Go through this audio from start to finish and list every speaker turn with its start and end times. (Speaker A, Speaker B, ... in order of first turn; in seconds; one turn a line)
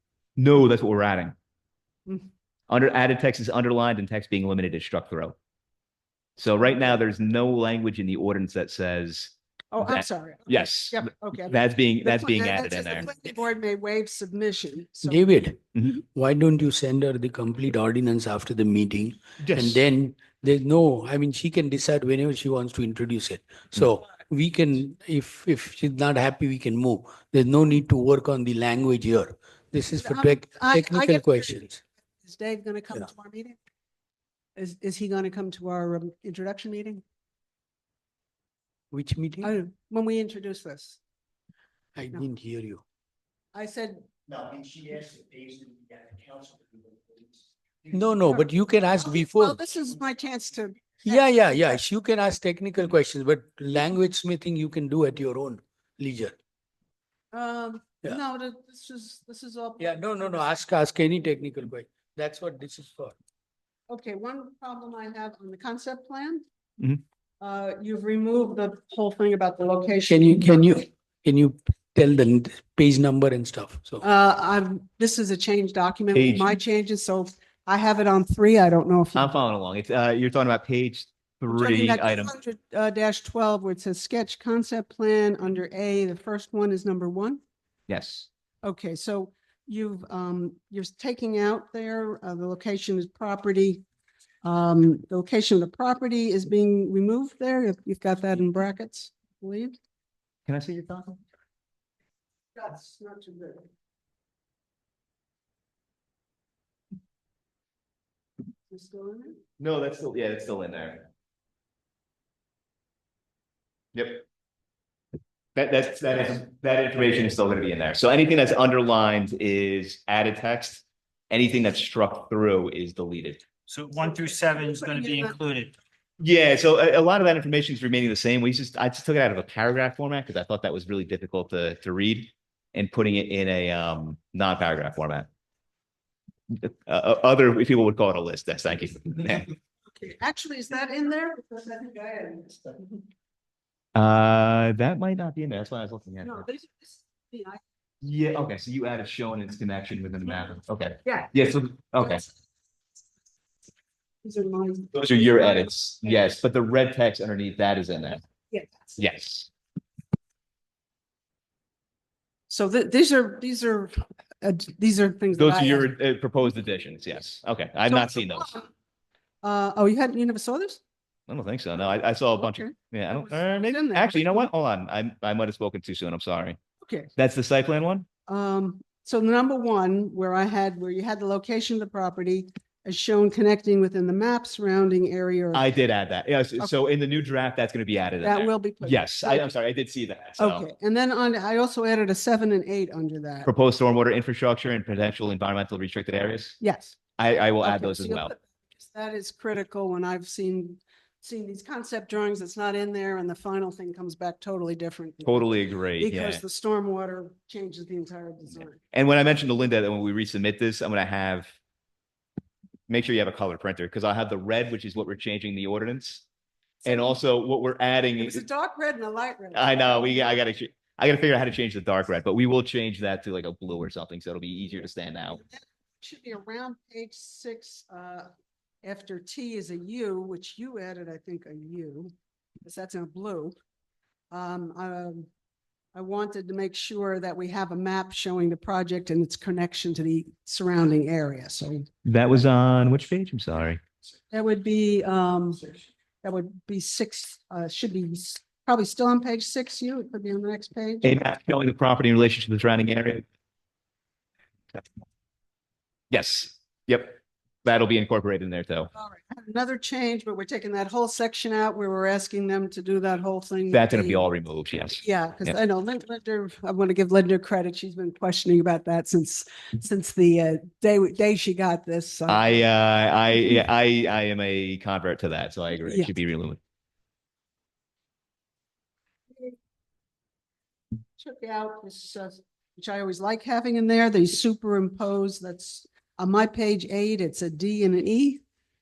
Speaker A: 0.4-1.3
Speaker A: 2.7-5.3
Speaker A: 6.4-13.1
Speaker B: 9.7-15.3
Speaker C: 15.0-15.6
Speaker A: 15.7-16.0
Speaker C: 16.1-31.8
Speaker A: 19.4-19.8
Speaker B: 29.9-33.6
Speaker B: 34.5-37.0
Speaker C: 38.9-39.5
Speaker B: 39.4-41.0
Speaker C: 41.9-42.8
Speaker B: 43.5-45.0
Speaker C: 47.9-49.6
Speaker B: 49.0-51.6
Speaker C: 51.0-56.4
Speaker B: 57.3-60.5
Speaker C: 59.8-63.1
Speaker B: 63.9-66.4
Speaker B: 67.4-70.8
Speaker C: 70.1-74.0
Speaker B: 74.0-79.3
Speaker A: 76.1-76.5
Speaker A: 79.1-82.3
Speaker B: 81.5-87.4
Speaker A: 87.9-88.3
Speaker B: 88.6-93.8
Speaker B: 94.4-99.8
Speaker A: 100.5-101.2
Speaker B: 102.5-103.7
Speaker B: 108.7-109.4
Speaker A: 109.6-111.0
Speaker A: 113.9-114.2
Speaker A: 115.5-123.4
Speaker D: 123.7-125.7
Speaker B: 124.3-125.3
Speaker A: 126.2-135.3
Speaker A: 136.5-139.5
Speaker B: 139.9-143.0
Speaker A: 143.9-146.4
Speaker B: 146.2-147.6
Speaker A: 148.0-152.2
Speaker B: 151.0-151.3
Speaker B: 154.2-156.3
Speaker A: 154.9-158.2
Speaker B: 158.5-159.0
Speaker A: 159.0-159.5
Speaker B: 162.5-165.9
Speaker A: 165.3-168.5
Speaker B: 167.9-168.7
Speaker B: 169.4-170.8
Speaker A: 171.3-176.6
Speaker B: 172.3-174.5
Speaker B: 176.8-177.1
Speaker A: 177.2-178.1
Speaker B: 178.3-185.7
Speaker A: 185.5-190.7
Speaker B: 188.2-189.4
Speaker B: 190.4-193.5
Speaker A: 193.4-196.6
Speaker B: 196.6-197.0
Speaker A: 197.2-198.3
Speaker B: 197.6-208.8
Speaker A: 205.2-206.4
Speaker A: 208.9-211.5
Speaker A: 212.9-216.2
Speaker B: 216.8-217.2
Speaker A: 216.8-218.4
Speaker B: 218.2-220.3
Speaker A: 219.5-225.4
Speaker B: 225.5-228.3
Speaker B: 228.8-233.5
Speaker B: 234.3-235.3
Speaker B: 235.9-241.9
Speaker A: 242.0-243.8
Speaker B: 244.3-245.6
Speaker B: 246.2-251.1
Speaker A: 251.0-253.2
Speaker A: 256.1-258.9
Speaker B: 258.9-264.2
Speaker A: 263.7-265.5
Speaker B: 265.0-272.6
Speaker A: 272.3-276.6
Speaker B: 275.8-276.1
Speaker B: 281.2-288.4